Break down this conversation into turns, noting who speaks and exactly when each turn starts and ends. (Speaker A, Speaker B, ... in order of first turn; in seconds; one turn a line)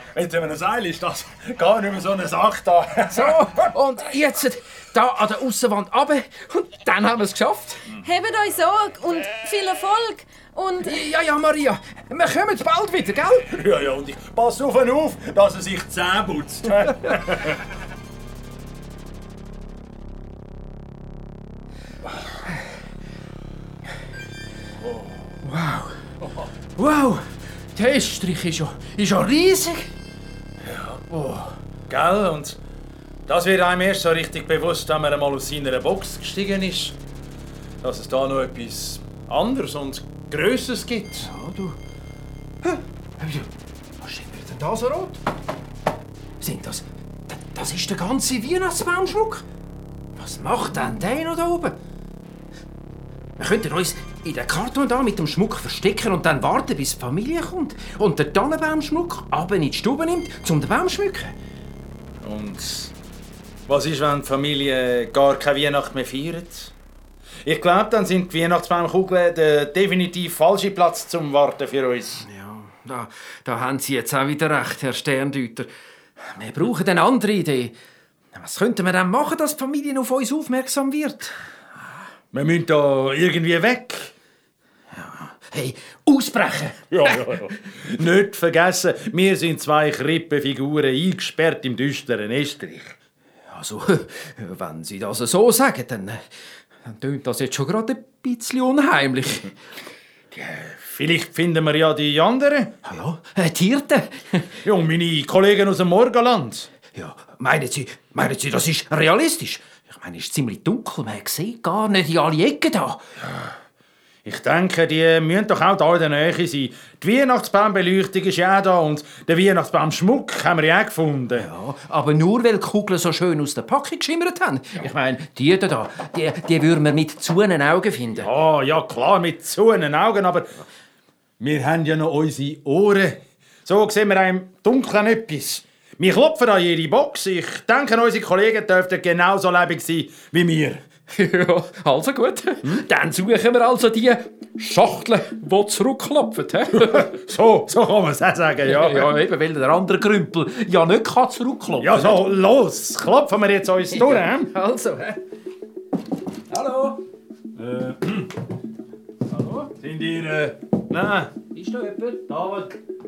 Speaker A: 0.1-3.7
Speaker B: 3.1-7.9
Speaker C: 8.0-11.0
Speaker B: 10.8-13.5
Speaker A: 13.5-17.6
Speaker B: 25.4-26.0
Speaker B: 26.8-29.9
Speaker A: 30.7-31.0
Speaker B: 31.1-31.6
Speaker A: 31.9-32.6
Speaker A: 33.3-37.0
Speaker A: 37.8-41.3
Speaker B: 41.2-41.8
Speaker B: 42.6-43.5
Speaker B: 44.0-45.2
Speaker B: 46.4-49.4
Speaker B: 50.2-51.8
Speaker B: 53.4-61.4
Speaker A: 62.2-62.9
Speaker A: 63.7-66.7
Speaker A: 67.5-72.2
Speaker B: 72.2-77.8
Speaker B: 78.3-81.3
Speaker A: 82.3-84.1
Speaker B: 85.0-87.0
Speaker A: 86.9-93.0
Speaker B: 93.5-96.3
Speaker B: 96.8-99.5
Speaker A: 100.3-102.7
Speaker B: 102.8-104.5
Speaker A: 104.6-106.7
Speaker B: 106.9-113.0
Speaker A: 114.2-121.5
Speaker B: 121.4-128.3
Speaker A: 128.2-130.6
Speaker A: 131.4-140.8
Speaker B: 141.1-147.2
Speaker A: 146.7-149.2
Speaker B: 148.6-152.2
Speaker A: 151.8-154.5
Speaker B: 153.9-155.2
Speaker B: 156.5-157.0
Speaker A: 157.6-158.3
Speaker B: 159.3-159.7
Speaker A: 159.6-161.3
Speaker B: 161.5-162.3
Speaker A: 162.3-162.7